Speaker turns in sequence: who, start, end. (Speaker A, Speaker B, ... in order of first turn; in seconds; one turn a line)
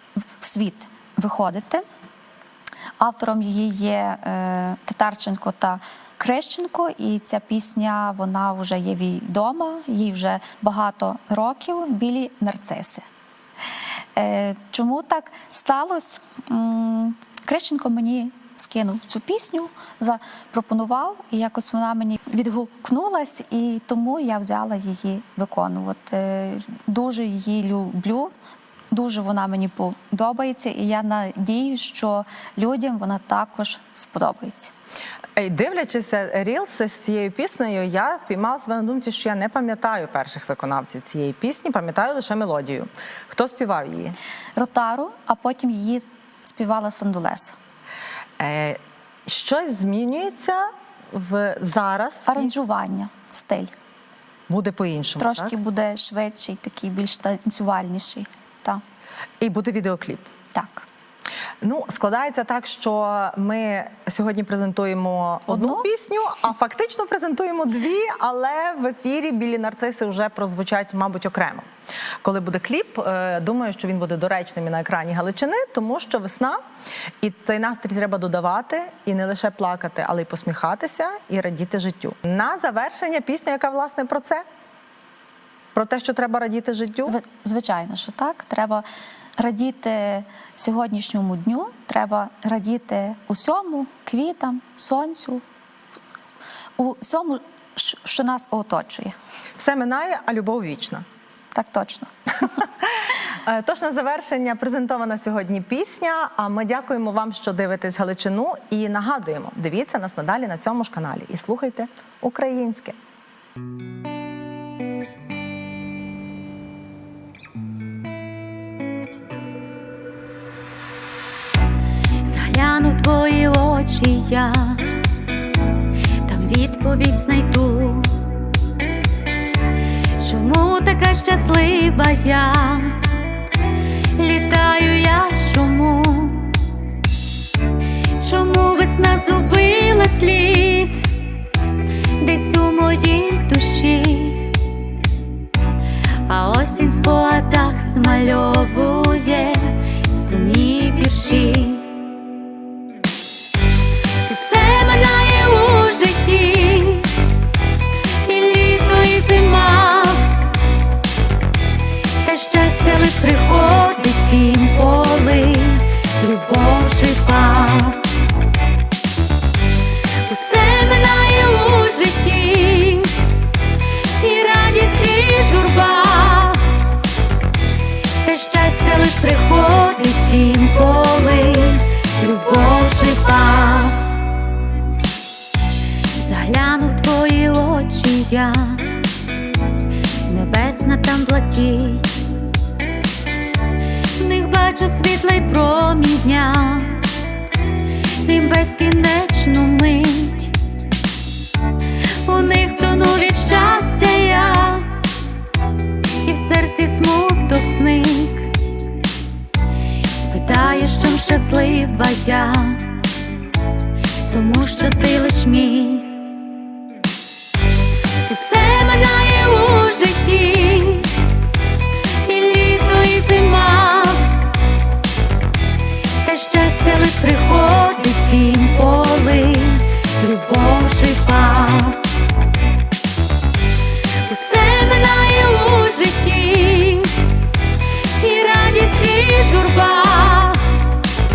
Speaker A: 0.4-1.8
Speaker A: 3.0-13.0
Speaker A: 14.2-28.3
Speaker A: 28.9-34.7
Speaker B: 35.4-44.2
Speaker A: 44.5-47.5
Speaker B: 48.4-52.5
Speaker A: 52.3-53.7
Speaker B: 54.5-55.5
Speaker A: 55.2-58.8
Speaker B: 59.4-60.3
Speaker A: 60.5-60.9
Speaker B: 61.6-71.7
Speaker A: 65.5-65.9
Speaker B: 72.2-76.6
Speaker B: 77.2-84.4
Speaker B: 85.7-87.1
Speaker A: 87.0-88.8
Speaker A: 89.4-95.4
Speaker A: 96.8-99.1
Speaker B: 99.6-101.0
Speaker A: 101.5-102.1
Speaker B: 102.8-113.0
Speaker C: 122.2-125.0
Speaker C: 126.2-128.2
Speaker C: 130.2-133.1
Speaker C: 134.2-136.6
Speaker C: 138.2-141.2
Speaker C: 142.2-144.6
Speaker C: 146.3-151.9
Speaker C: 154.2-157.1
Speaker C: 158.1-160.4
Speaker C: 162.2-168.1
Speaker C: 170.2-173.2
Speaker C: 174.2-176.8
Speaker C: 178.2-184.2
Speaker C: 186.1-189.0
Speaker C: 190.2-192.3
Speaker C: 194.2-197.1
Speaker C: 198.2-200.5
Speaker C: 202.0-204.9
Speaker C: 206.2-208.5
Speaker C: 210.1-213.0
Speaker C: 214.3-216.1
Speaker C: 218.2-221.1
Speaker C: 222.1-224.4
Speaker C: 226.2-232.1
Speaker C: 234.2-237.3
Speaker C: 238.2-240.9